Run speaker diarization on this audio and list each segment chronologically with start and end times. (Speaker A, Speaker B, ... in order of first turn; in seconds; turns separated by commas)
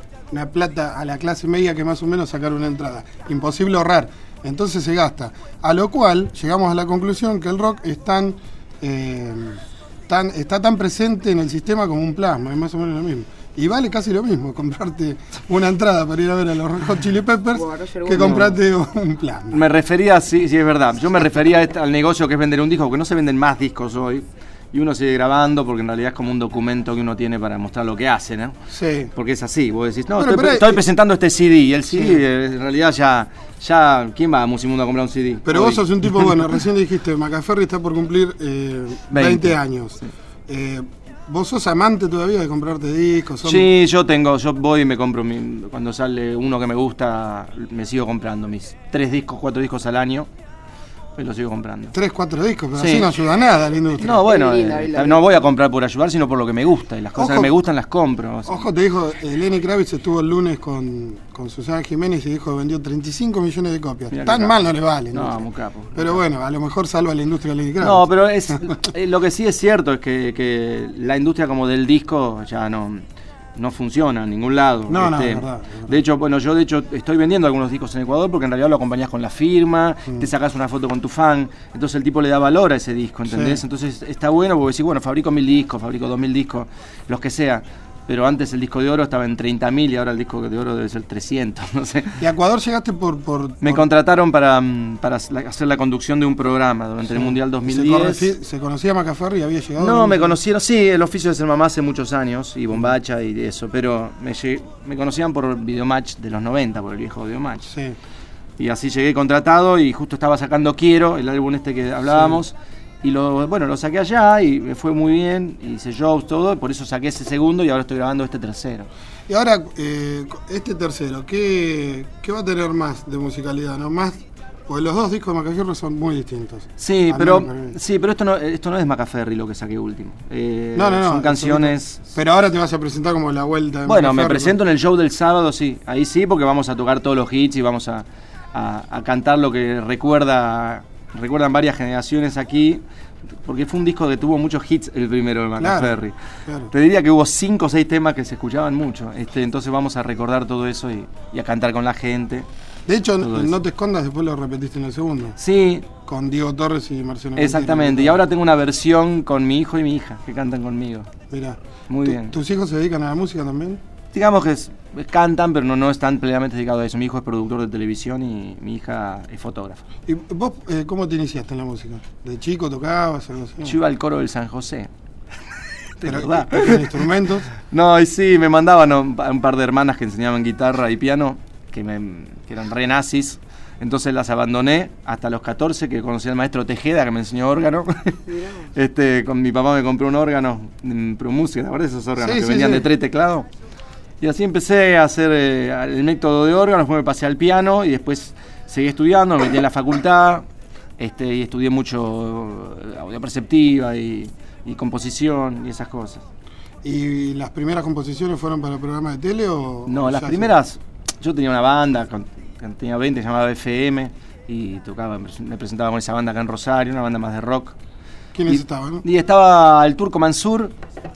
Speaker A: 0.3-19.6, Speaker B: 18.0-18.6, Speaker B: 19.5-28.6, Speaker A: 28.7-29.1, Speaker B: 29.1-36.3, Speaker A: 30.1-30.9, Speaker A: 31.9-32.2, Speaker A: 35.4-43.7, Speaker B: 39.1-39.5, Speaker B: 43.4-50.3, Speaker B: 51.2-52.0, Speaker A: 51.9-54.4, Speaker B: 52.8-53.1, Speaker B: 54.0-58.6, Speaker A: 57.1-57.6, Speaker A: 58.4-68.8, Speaker B: 64.1-64.5, Speaker B: 65.1-66.2, Speaker B: 67.8-73.0, Speaker B: 73.5-92.2, Speaker A: 74.9-76.0, Speaker A: 83.3-83.6, Speaker A: 92.2-93.9, Speaker B: 93.6-98.3, Speaker A: 97.0-100.4, Speaker B: 99.8-107.7, Speaker A: 107.7-108.0, Speaker B: 108.6-118.9, Speaker A: 112.1-112.4, Speaker A: 119.3-127.8, Speaker B: 126.8-132.0, Speaker A: 130.7-134.6, Speaker B: 133.8-142.8, Speaker B: 143.4-146.1, Speaker A: 145.6-146.7, Speaker B: 146.7-152.5, Speaker A: 152.9-155.4, Speaker B: 153.2-153.6, Speaker B: 155.4-155.9, Speaker A: 156.0-158.2, Speaker B: 157.4-161.1, Speaker A: 161.3-163.8, Speaker B: 161.9-162.3, Speaker B: 164.1-169.8, Speaker A: 170.1-173.8, Speaker B: 173.6-174.9, Speaker B: 176.0-176.9, Speaker A: 176.0-177.5, Speaker B: 177.7-193.5, Speaker A: 192.2-192.9, Speaker B: 194.2-200.4, Speaker B: 201.0-206.2, Speaker A: 206.8-210.5, Speaker B: 209.9-217.7, Speaker A: 218.3-219.1, Speaker B: 218.5-220.7